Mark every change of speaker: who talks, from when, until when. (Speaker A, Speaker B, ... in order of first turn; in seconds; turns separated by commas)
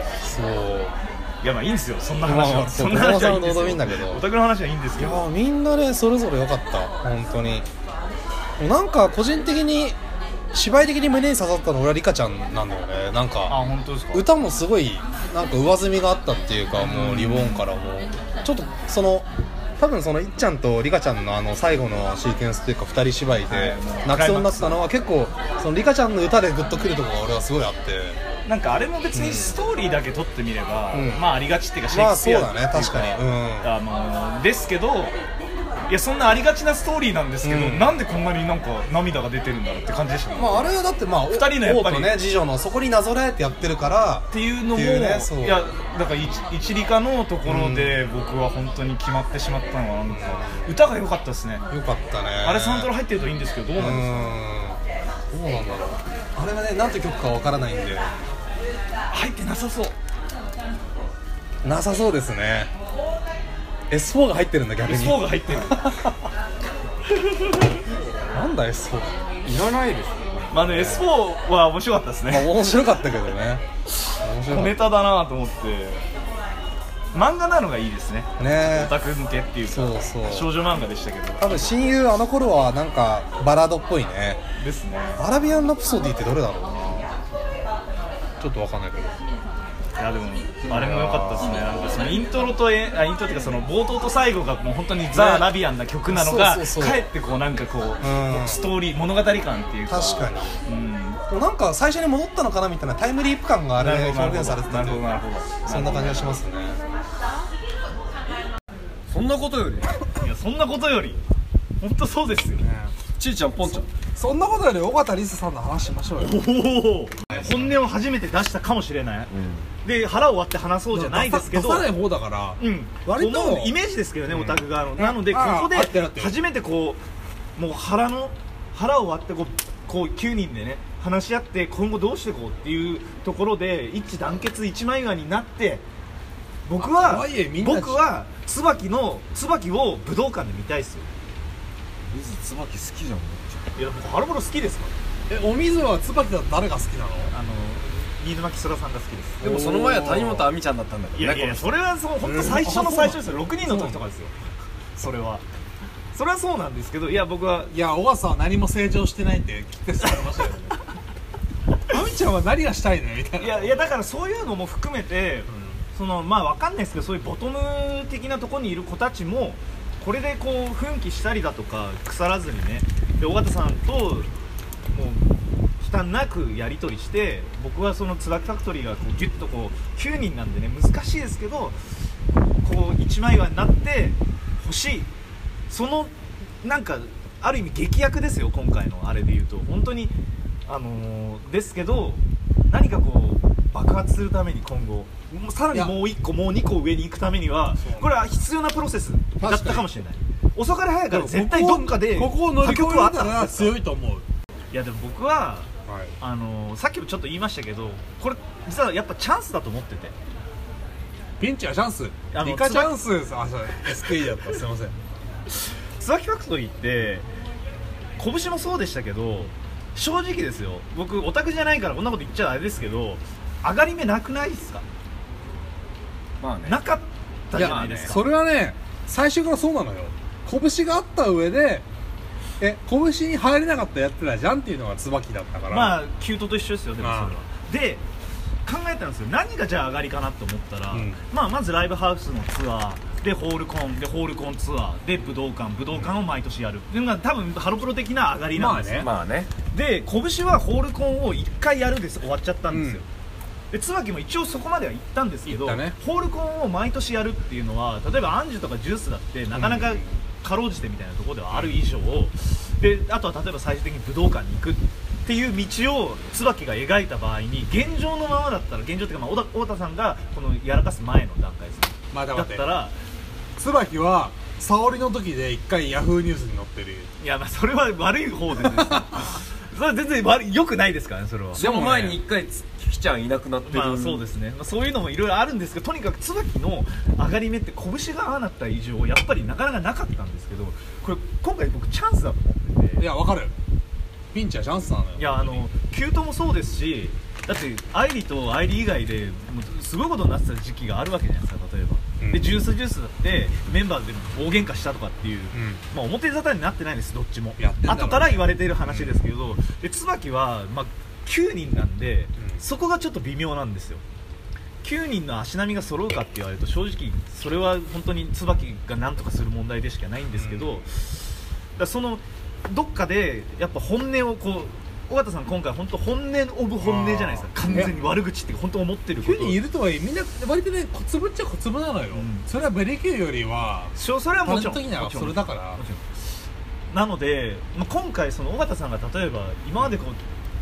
Speaker A: 0.2-0.9, Speaker B: 1.4-5.2, Speaker A: 2.2-4.2, Speaker A: 5.0-7.7, Speaker A: 8.6-10.0, Speaker A: 10.5-13.6, Speaker B: 13.5-14.3, Speaker A: 14.1-19.3, Speaker B: 16.8-17.6, Speaker A: 19.8-28.2, Speaker B: 23.4-24.8, Speaker B: 28.4-35.1, Speaker A: 29.1-29.6, Speaker A: 30.9-31.2, Speaker A: 31.9-33.7, Speaker B: 35.9-40.7, Speaker A: 37.4-38.0, Speaker A: 40.4-45.6, Speaker B: 41.3-42.2, Speaker B: 44.3-51.6, Speaker A: 47.5-48.0, Speaker A: 50.1-50.7, Speaker A: 51.7-52.9, Speaker B: 52.4-54.3, Speaker A: 53.8-54.8, Speaker A: 55.3-58.1, Speaker B: 59.1-59.9, Speaker A: 61.6-62.7, Speaker A: 63.9-66.2, Speaker B: 64.8-65.8, Speaker B: 67.3-67.7, Speaker A: 68.3-69.2, Speaker C: 69.4-70.5, Speaker B: 70.5-72.6, Speaker A: 70.6-71.1, Speaker A: 72.3-73.6, Speaker A: 74.2-74.8, Speaker B: 74.5-76.0, Speaker B: 77.1-81.8, Speaker A: 78.4-78.9, Speaker A: 79.7-80.5, Speaker A: 81.4-84.4, Speaker B: 84.6-85.2, Speaker A: 85.2-87.1, Speaker A: 88.4-89.2, Speaker B: 90.0-101.2, Speaker A: 90.6-92.0, Speaker A: 95.1-95.5, Speaker A: 96.1-97.0, Speaker A: 98.0-98.7, Speaker A: 99.9-100.5, Speaker A: 101.3-106.8, Speaker B: 103.8-106.4, Speaker C: 109.1-109.9, Speaker B: 110.2-111.2, Speaker B: 111.8-112.7, Speaker D: 112.6-113.0, Speaker C: 113.2-113.9, Speaker D: 114.1-116.5, Speaker B: 116.2-119.3, Speaker D: 117.3-117.7, Speaker C: 119.3-119.7, Speaker B: 119.8-121.8, Speaker D: 120.9-123.8, Speaker B: 122.6-127.0, Speaker D: 124.3-126.3, Speaker B: 127.6-135.8, Speaker B: 136.7-141.1, Speaker D: 136.8-138.0, Speaker C: 142.0-143.8, Speaker B: 143.8-144.9, Speaker D: 145.3-147.3, Speaker B: 147.3-149.4, Speaker C: 149.4-151.8, Speaker D: 149.4-150.5, Speaker B: 151.1-154.3, Speaker D: 152.2-154.0, Speaker B: 154.9-155.4, Speaker B: 156.1-157.7, Speaker D: 157.7-160.8, Speaker D: 161.9-163.8, Speaker B: 163.4-174.3, Speaker D: 165.5-165.8, Speaker B: 174.9-175.3, Speaker B: 175.8-181.8, Speaker B: 182.6-185.1, Speaker B: 185.7-190.1, Speaker B: 190.7-203.7, Speaker D: 197.8-198.1, Speaker D: 199.4-199.9, Speaker D: 201.1-204.2, Speaker B: 204.7-210.1, Speaker D: 205.9-206.2, Speaker D: 211.4-215.0, Speaker B: 212.3-212.9, Speaker B: 216.0-217.3, Speaker B: 218.2-224.8, Speaker C: 226.4-226.8, Speaker B: 226.6-228.2, Speaker D: 227.5-231.8, Speaker C: 227.6-228.1, Speaker D: 232.6-236.0, Speaker B: 235.7-238.0, Speaker D: 237.0-237.3, Speaker B: 238.6-249.1, Speaker D: 248.5-249.1, Speaker C: 249.0-249.5, Speaker B: 249.7-253.0, Speaker D: 252.7-253.0, Speaker B: 253.7-272.9, Speaker D: 255.4-255.9, Speaker D: 272.1-272.7, Speaker D: 273.6-277.1, Speaker B: 277.2-281.7, Speaker D: 278.7-279.0, Speaker C: 281.6-284.2, Speaker D: 281.6-282.2, Speaker B: 283.7-293.1, Speaker D: 293.0-293.5, Speaker D: 294.3-295.6, Speaker B: 295.2-314.0, Speaker D: 305.5-305.8, Speaker D: 307.6-309.2, Speaker D: 312.4-312.6, Speaker B: 314.8-321.1, Speaker B: 321.8-329.6, Speaker D: 326.8-328.0, Speaker D: 329.2-335.8, Speaker B: 332.1-332.5, Speaker B: 333.9-336.0, Speaker B: 336.9-340.2